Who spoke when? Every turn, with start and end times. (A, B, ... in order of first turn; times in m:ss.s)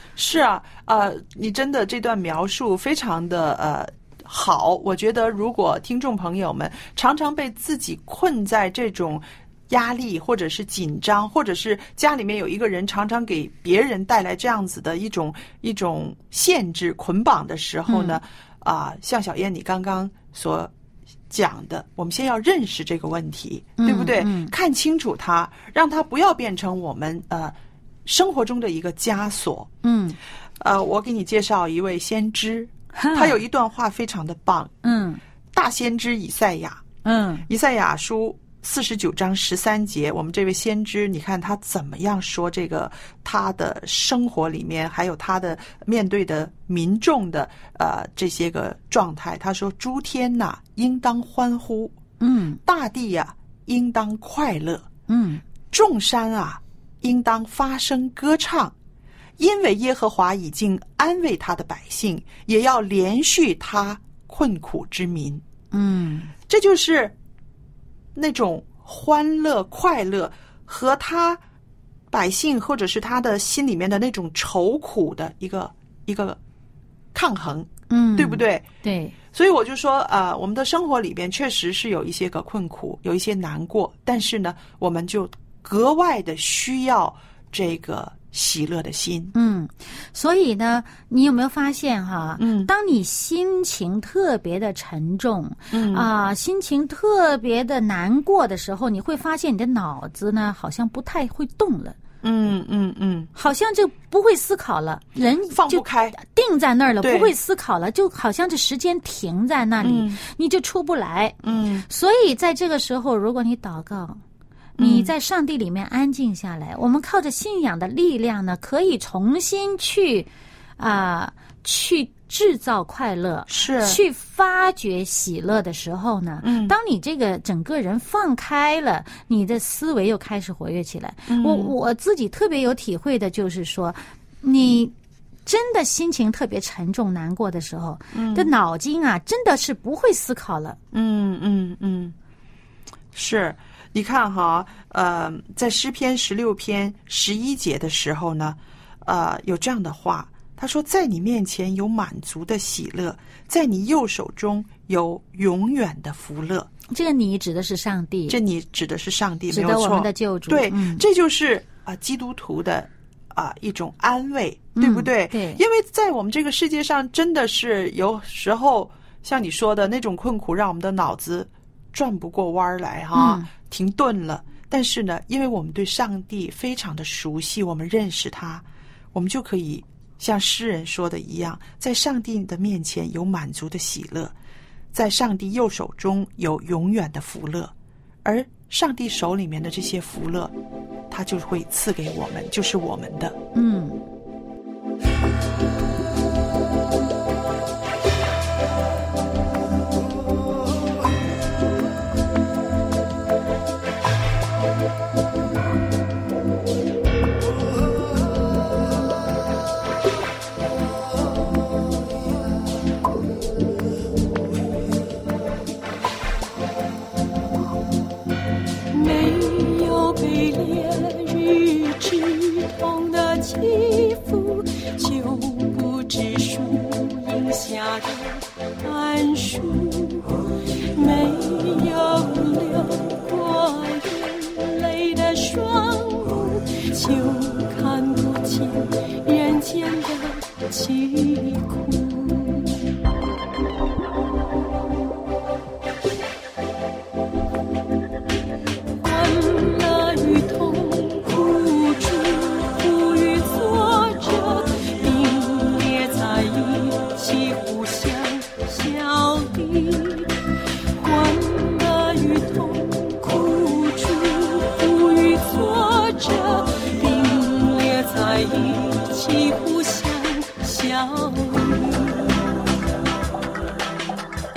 0:00.2-0:20.7 A
0:17.9-0:18.2 B
0:21.3-0:29.7 A
0:23.8-0:24.5 B
0:29.8-0:30.2 B
0:30.6-0:34.7 A
0:33.0-0:33.4 B
0:34.8-0:35.2 B
0:35.5-0:36.8 A
0:37.0-0:37.4 B
0:37.5-0:51.9 A
0:52.2-0:52.6 B
0:52.6-0:54.9 A
0:55.1-0:55.4 B
0:55.7-0:58.7 A
0:59.4-1:05.4 A
1:05.7-1:06.3 B
1:06.5-1:07.1 A
1:08.1-1:11.4 A
1:12.1-1:16.4 A
1:17.1-1:18.6 A
1:17.9-1:19.1 B
1:19.3-1:29.3 A
1:29.3-1:42.0 B
1:32.4-1:32.7 A
1:35.7-1:36.1 A
1:42.2-1:43.3 A
1:43.4-1:54.2 B
1:45.5-1:46.2 A
1:47.0-1:47.3 A
1:49.8-1:50.2 A
1:51.4-1:51.9 A
1:54.8-1:55.1 A
1:54.8-2:00.3 B
2:00.8-2:14.9 B
2:03.5-2:04.0 A
2:06.4-2:06.7 A
2:11.3-2:11.7 A
2:15.4-2:20.8 B
2:18.1-2:18.5 A
2:20.9-2:22.1 A
2:23.1-2:36.7 A
2:36.9-2:38.4 B
2:38.3-3:04.3 A
2:39.5-2:41.0 B
2:44.8-2:45.6 B
2:53.1-2:53.5 B
3:04.9-3:07.7 A
3:08.2-3:10.5 A
3:11.1-3:13.4 A
3:13.6-3:14.0 B
3:38.9-4:02.7 C
4:09.0-4:20.4 C
4:21.0-4:32.5 C